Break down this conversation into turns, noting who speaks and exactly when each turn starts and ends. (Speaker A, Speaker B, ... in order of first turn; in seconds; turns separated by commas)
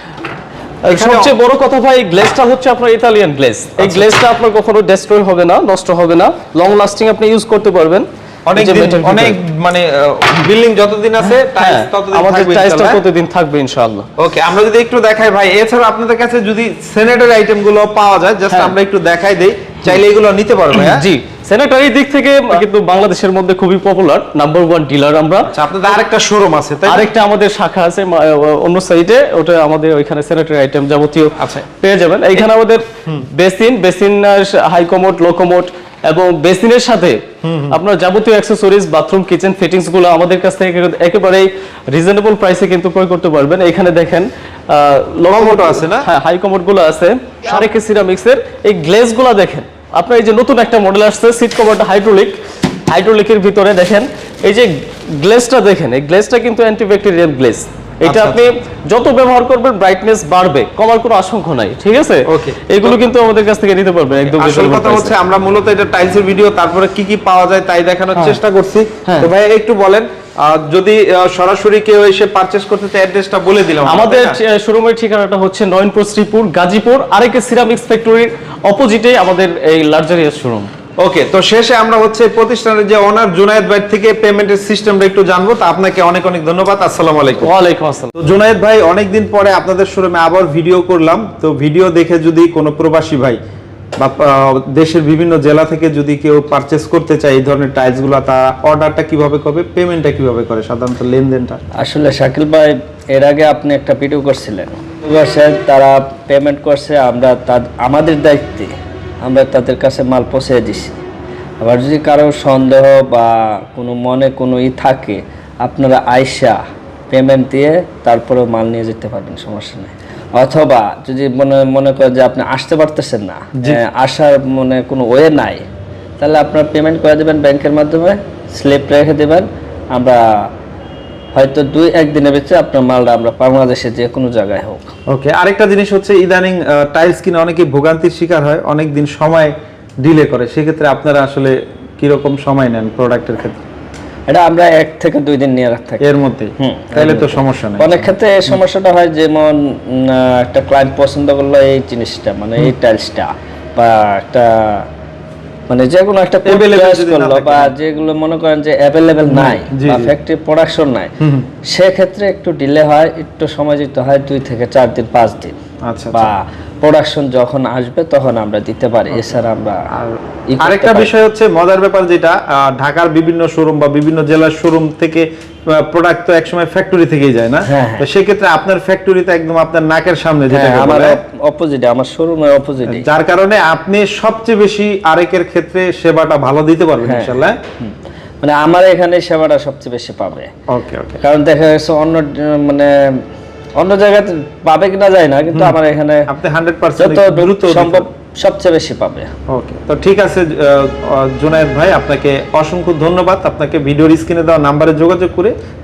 Speaker A: 0.8-9.4, Speaker B: 0.9-1.3, Speaker B: 3.8-4.1, Speaker B: 8.5-13.0, Speaker A: 11.2-14.1, Speaker B: 14.2-21.1, Speaker A: 20.7-25.9, Speaker B: 25.5-27.1, Speaker A: 26.8-65.1, Speaker B: 31.4-31.6, Speaker B: 37.4-37.8, Speaker B: 45.3-46.1, Speaker B: 58.0-58.4, Speaker B: 62.3-63.0, Speaker B: 64.2-74.4, Speaker A: 73.8-80.7, Speaker B: 81.0-87.5, Speaker A: 87.4-88.1, Speaker B: 88.2-93.4, Speaker B: 94.0-101.6, Speaker C: 101.8-108.7, Speaker C: 109.2-110.9, Speaker C: 111.6-116.6, Speaker C: 117.1-125.6, Speaker C: 126.2-130.5, Speaker C: 131.3-134.9, Speaker B: 135.1-143.6, Speaker C: 144.3-154.8, Speaker B: 146.0-148.1, Speaker C: 155.7-161.1, Speaker B: 156.4-157.7, Speaker B: 159.3-160.1, Speaker B: 161.2-161.5, Speaker C: 161.7-165.5, Speaker B: 165.9-166.3, Speaker C: 166.1-169.8, Speaker B: 169.9-181.2, Speaker C: 170.5-171.1, Speaker C: 177.6-178.1, Speaker C: 180.5-183.0, Speaker B: 182.8-187.6, Speaker C: 187.0-190.5, Speaker B: 190.7-191.2, Speaker C: 191.2-193.2, Speaker C: 193.8-196.3, Speaker B: 196.3-198.1, Speaker C: 197.0-199.3, Speaker B: 199.5-205.5